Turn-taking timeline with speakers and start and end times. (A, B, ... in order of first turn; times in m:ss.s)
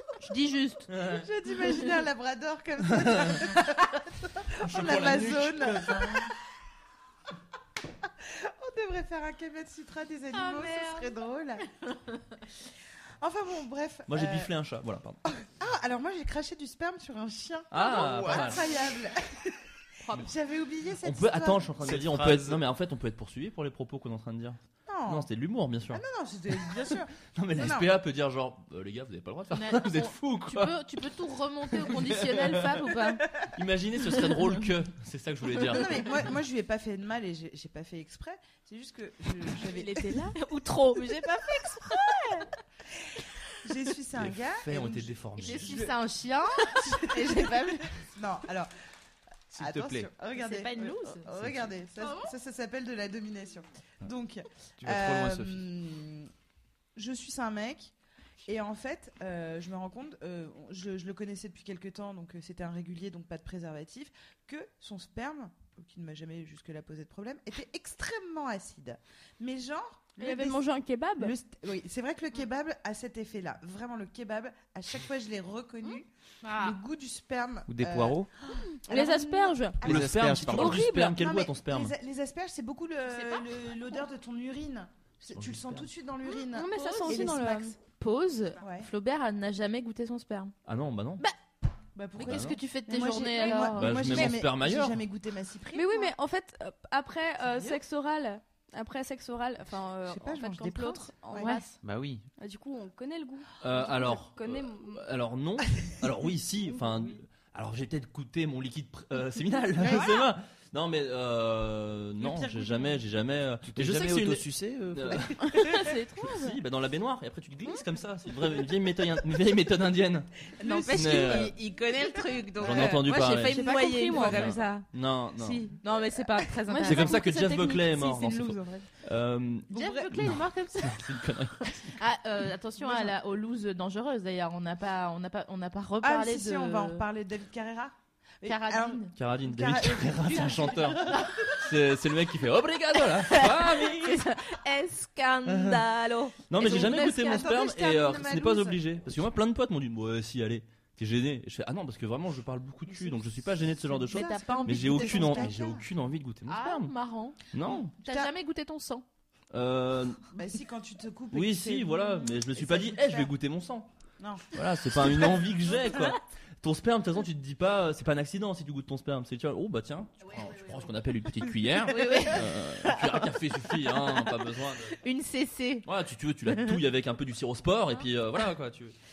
0:00.2-0:00.9 A
0:00.9-0:01.2 B
0:01.0-0:06.3 C
0:03.0-0:03.4 B
0:04.6-0:06.3 B
0:08.0-0:11.7 C
0:10.3-0:11.1 A
0:12.6-0:14.5 C
0:14.1-0:15.2 B
0:15.2-0:21.7 C
0:17.7-0:18.6 B
0:18.0-0:18.3 D
0:20.0-0:20.3 A
0:21.0-0:26.0 B
0:21.8-0:22.6 D
0:24.9-0:25.3 C
0:25.9-0:27.9 C
0:26.6-0:30.8 B
0:29.5-0:33.2 A
0:31.7-0:32.7 B
0:33.3-0:36.3 B
0:35.6-0:40.1 C
0:39.6-0:40.4 E
0:40.3-0:42.5 A
0:42.9-0:45.9 C
0:44.2-0:45.8 B
0:45.4-0:48.0 A
0:46.4-0:48.7 C
0:49.5-0:50.1 D
0:49.5-0:56.3 C
0:50.3-0:51.3 A
0:52.0-0:52.3 A
0:54.8-0:55.6 D
0:56.9-0:57.9 C
0:58.4-1:10.6 C
1:10.2-1:11.3 E
1:11.2-1:27.8 C
1:16.4-1:16.8 A
1:17.7-1:18.3 D
1:18.7-1:19.8 E
1:19.8-1:20.9 D
1:19.8-1:21.9 B
1:20.5-1:21.2 E
1:23.1-1:23.5 A
1:25.3-1:25.9 B
1:26.3-1:27.8 E
1:26.7-1:30.5 A
1:28.6-1:28.9 C
1:30.6-1:31.2 B
1:31.9-1:36.1 C
1:32.1-1:34.4 A
1:32.3-1:32.6 B
1:33.7-1:35.0 B
1:35.7-1:41.8 E
1:37.5-1:37.8 C
1:40.0-1:41.5 C
1:41.3-1:41.6 A
1:41.8-1:42.2 D
1:42.4-1:45.1 E
1:43.6-2:00.4 B
1:46.8-1:47.1 E
1:49.8-1:50.3 C
1:52.2-1:53.0 C
1:53.6-1:55.4 D
1:55.4-1:56.6 E
2:00.6-2:01.6 C
2:00.6-2:07.2 A
2:00.9-2:01.5 B
2:02.1-2:03.0 C
2:02.6-2:03.6 B
2:03.2-2:04.6 E
2:04.1-2:05.7 B
2:06.7-2:08.4 E
2:06.8-2:11.9 B
2:08.0-2:08.7 A
2:09.7-2:10.4 C
2:09.7-2:17.0 A
2:12.8-2:13.2 C
2:16.0-2:21.5 C
2:18.4-2:19.1 A
2:19.1-2:24.2 B
2:20.4-2:21.6 A
2:23.1-2:27.6 A
2:25.5-2:25.8 B
2:26.5-2:36.9 B
2:26.6-2:28.8 C
2:32.9-2:35.8 C
2:34.1-2:35.6 A
2:36.5-2:39.0 A
2:37.5-2:37.9 B
2:37.6-2:38.3 C
2:39.5-2:40.3 B
2:40.3-2:43.3 C
2:41.3-2:43.9 B
2:44.2-2:45.4 C
2:44.5-2:55.0 B
2:51.8-2:54.3 A
2:54.9-2:55.9 A
2:55.8-2:59.0 B
2:56.5-2:56.8 A